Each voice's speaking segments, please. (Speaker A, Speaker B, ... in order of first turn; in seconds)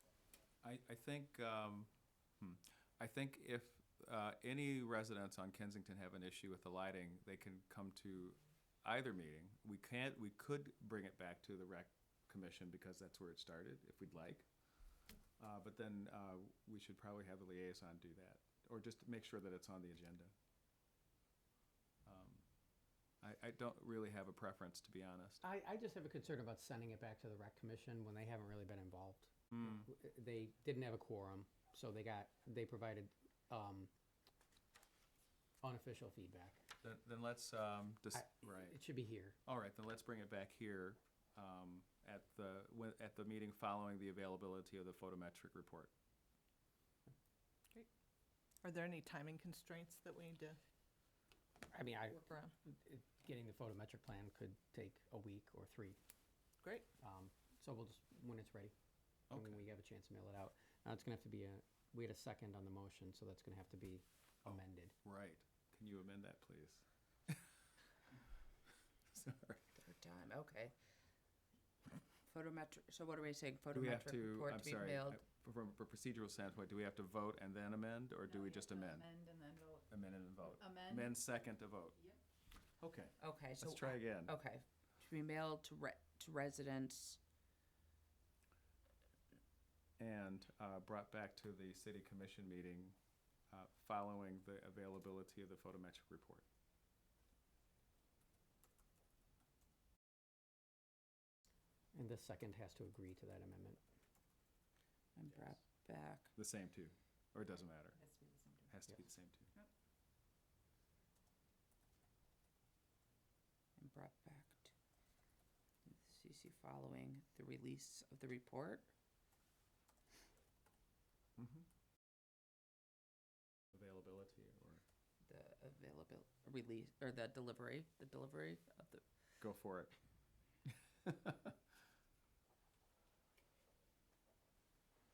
Speaker A: 0.6-14.5, 15.4-20.3, 22.1-22.4, 23.2-25.4, 29.5-29.9, 36.8-38.8, 39.5-45.9, 59.3-59.6, 64.4-67.3, 69.1-69.7, 73.7-79.1, 79.9-82.0, 82.8-84.3, 90.0-93.0, 93.5-96.4, 106.3-108.0, 108.7-109.5, 121.4-121.6, 123.7-124.8, 129.4-129.9, 131.1-131.5
Speaker B: 25.4-33.9, 35.6-36.6, 38.1-39.4, 51.7-56.0, 57.0-58.7, 59.3-64.9, 101.9-103.8
Speaker C: 48.6-50.6, 52.1-52.5
Speaker D: 69.8-70.7, 72.3-75.2, 83.2-87.2, 105.2-106.3, 113.8-114.7, 115.9-118.9, 125.2-129.0
Speaker E: 78.3-79.9, 80.5-81.2